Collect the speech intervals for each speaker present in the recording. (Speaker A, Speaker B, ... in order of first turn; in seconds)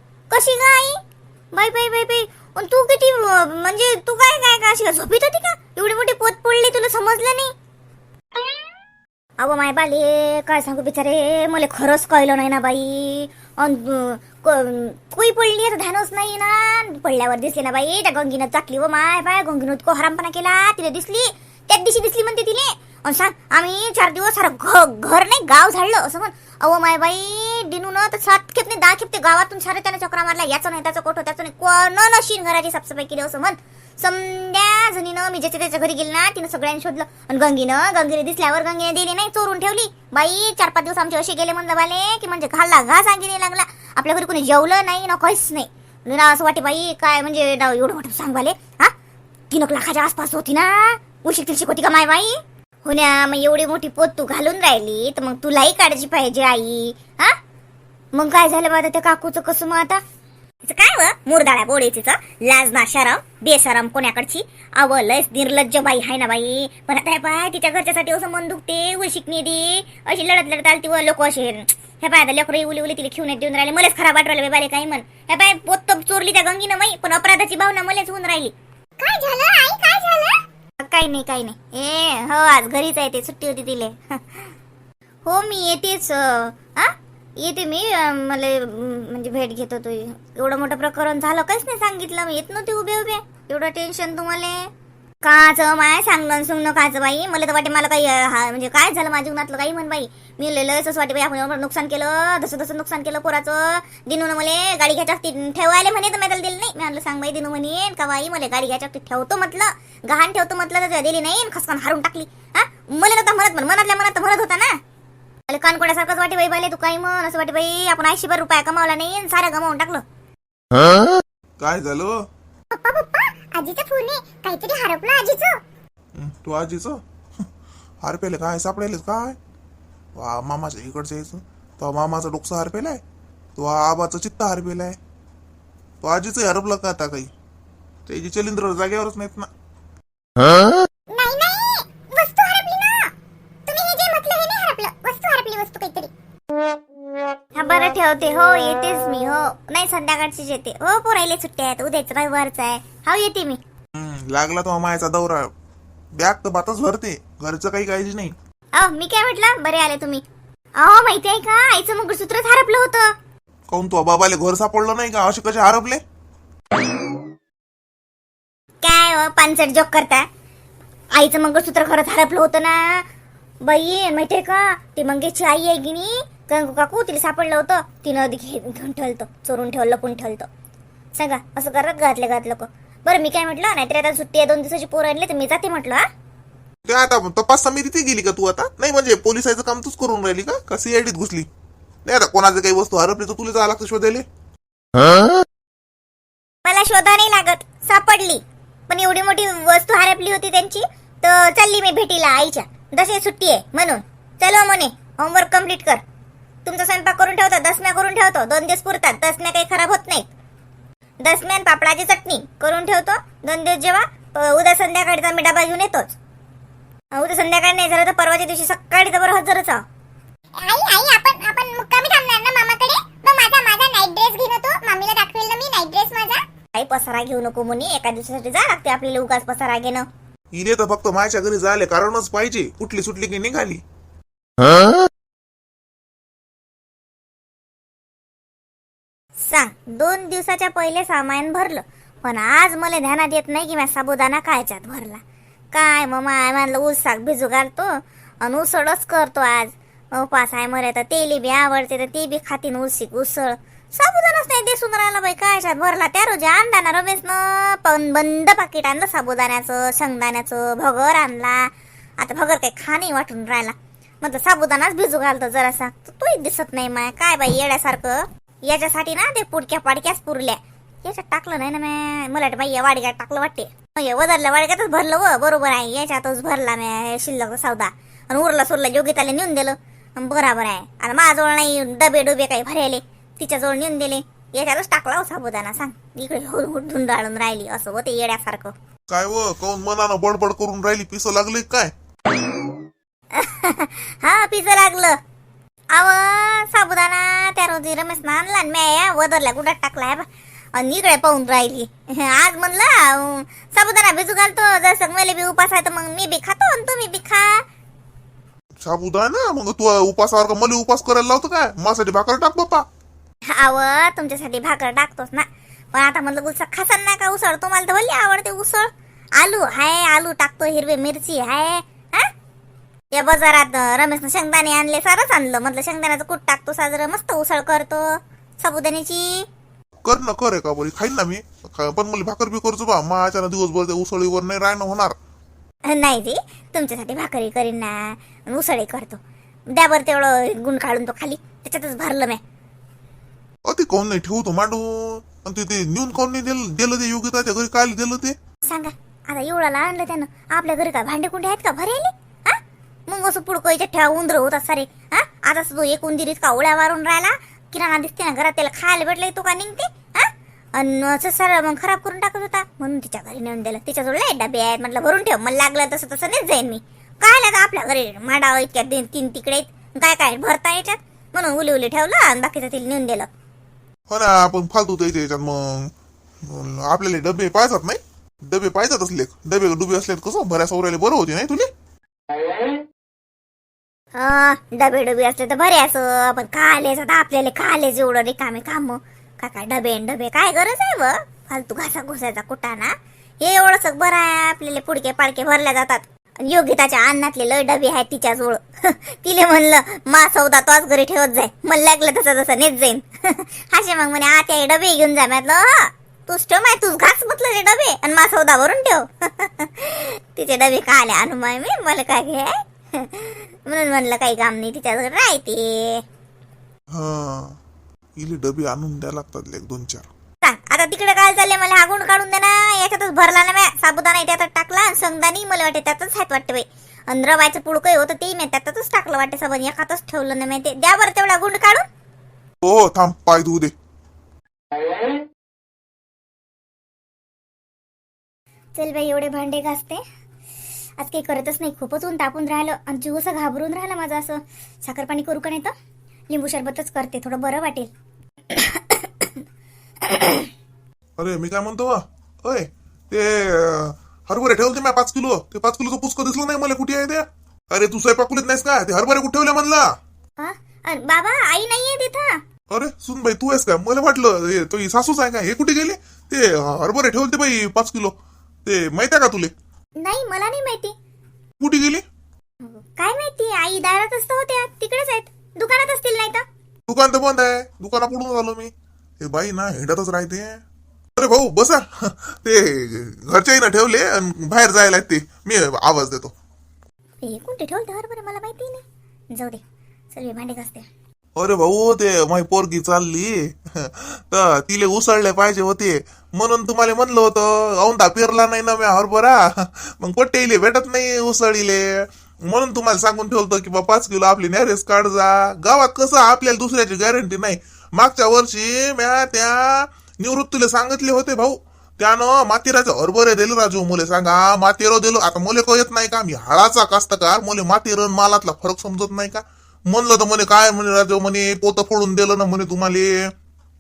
Speaker A: 0.3-1.0, 1.5-7.5, 9.4-48.9, 49.5-57.4, 58.1-60.0, 60.6-84.5, 85.2-94.7, 95.2-114.8, 115.5-120.0, 123.7-125.5, 141.2-143.0, 143.7-146.1, 147.6-153.6, 158.7-160.2, 160.8-163.1, 168.8-170.3, 171.1-173.1, 173.6-180.5, 181.2-186.1, 196.7-206.0, 206.7-210.3, 211.2-216.2, 217.1-219.8, 220.7-230.1, 239.4-245.2, 245.7-288.7, 293.3-295.2, 295.9-307.6, 313.5-322.3, 323.1-329.5, 335.9-339.2, 339.7-342.4, 348.7-373.3, 384.1-416.0, 420.4-431.9, 438.8-440.0, 441.0-445.7, 446.3-447.9, 448.5-449.4, 450.0-450.5, 460.4-462.4, 470.0-470.9, 472.6-476.4, 487.2-490.9
Speaker B: 121.6-122.1, 126.2-127.0, 128.0-129.4, 130.2-133.0, 133.6-135.0, 136.0-137.3, 138.1-139.5, 154.0-155.5, 156.2-158.3, 163.7-166.0, 186.9-191.5, 192.1-194.3, 230.5-233.8, 289.1-291.9, 308.8-312.9, 330.0-335.2, 343.6-348.4, 374.1-375.9, 376.4-381.7, 416.9-417.6, 418.2-420.1, 432.6-433.7, 451.2-459.9, 462.7-469.5, 471.6-472.1, 476.9-480.6, 481.2-486.3, 491.4-523.3
Speaker C: 122.8-125.5, 143.7-144.6, 220.7-222.1, 223.1-226.1